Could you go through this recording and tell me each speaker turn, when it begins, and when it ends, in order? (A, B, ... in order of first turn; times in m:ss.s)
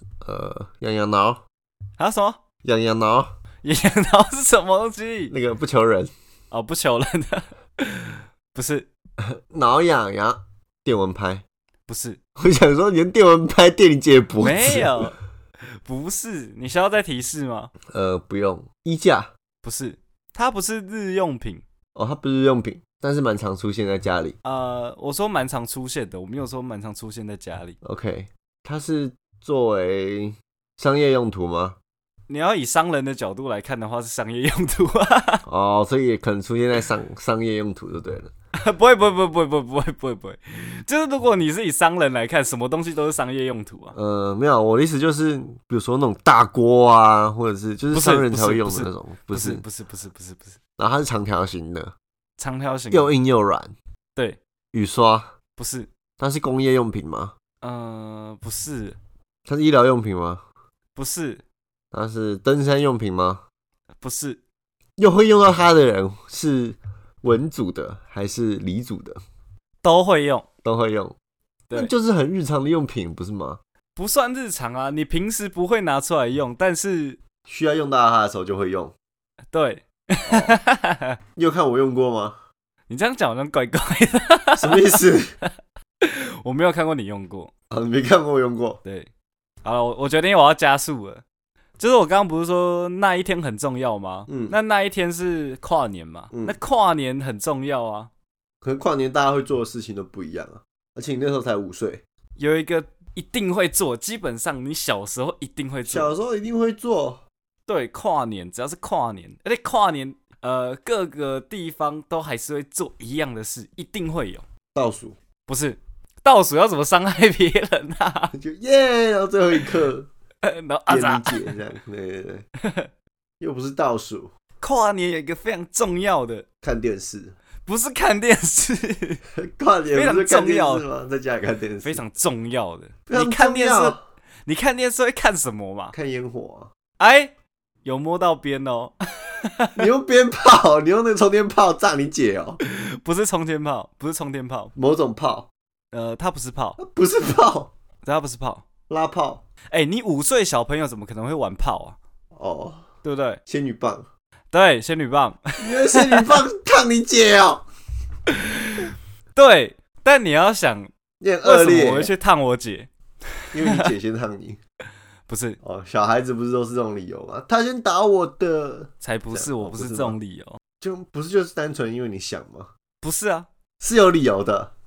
0:00.2-0:01.4 A
0:02.0-0:02.4 B
0:02.6-0:03.3 A
0:03.6-0:05.3 B
0:05.3-0:06.1 A
0:06.5-0:08.9 B
0:09.2-0:11.4 A
0:11.9-0:12.2 B
0:12.4-0:15.1 A
0:14.4-0:15.2 B
0:15.8-0:17.7 B
0:17.9-0:19.3 A
0:19.6-0:21.6 B
0:21.9-0:24.4 A
0:24.4-0:27.8 B
0:27.8-0:31.8 A
0:32.3-0:35.4 B
0:35.4-0:38.3 A
0:38.5-0:44.0 B
0:43.9-0:49.6 A
0:47.9-0:50.6 B
0:50.8-0:51.9 A
0:52.4-0:53.1 B
0:52.9-0:53.7 A
0:54.7-0:55.3 A
0:55.6-0:55.9 B
0:56.2-0:57.3 A
0:57.6-0:59.0 B
0:59.5-1:00.4 A
1:00.9-1:01.4 B
1:01.9-1:03.4 A
1:04.0-1:04.4 B
1:05.0-1:09.2 A
1:09.8-1:10.4 B
1:10.6-1:11.2 A
1:11.7-1:13.6 A
1:14.0-1:17.2 B
1:17.4-1:18.9 A
1:19.5-1:21.2 B
1:20.3-1:20.6 A
1:21.4-1:22.4 A
1:22.9-1:27.5 B
1:24.6-1:25.4 A
1:27.7-1:28.8 A
1:28.8-1:29.1 B
1:29.6-1:31.2 B
1:31.8-1:38.1 B
1:34.3-1:34.6 A
1:36.3-1:36.6 A
1:38.6-1:42.0 A
1:42.4-1:46.2 B
1:45.8-1:47.2 A
1:47.7-1:54.4 B
1:54.7-1:55.2 A
1:55.5-1:58.3 B
1:58.3-2:00.1 A
2:00.4-2:01.6 B
2:00.9-2:02.4 A
2:02.6-2:02.9 B
2:03.4-2:04.3 A
2:04.6-2:06.4 B
2:06.6-2:07.4 A
2:07.6-2:09.2 B
2:09.4-2:12.0 A
2:09.9-2:10.8 B
2:11.8-2:15.9 B
2:13.1-2:14.0 A
2:15.9-2:16.7 A
2:17.0-2:17.3 B
2:17.8-2:19.9 B
2:19.8-2:22.6 A
2:22.6-2:24.7 B
2:24.8-2:25.5 A
2:25.9-2:26.8 B
2:26.8-2:27.7 A
2:28.0-2:28.6 B
2:28.9-2:29.4 A
2:29.7-2:32.0 B
2:32.3-2:32.8 A
2:33.0-2:33.4 B
2:33.5-2:34.1 A
2:34.5-2:36.4 B
2:35.6-2:37.6 A
2:38.3-2:40.9 B
2:41.2-2:42.1 A
2:41.4-2:42.9 B
2:43.4-2:43.9 B
2:43.5-2:44.6 A
2:45.3-2:45.6 B
2:45.6-2:50.2 A
2:49.0-2:50.6 B
2:50.8-2:52.7 A
2:53.0-2:53.5 B
2:53.8-2:54.7 A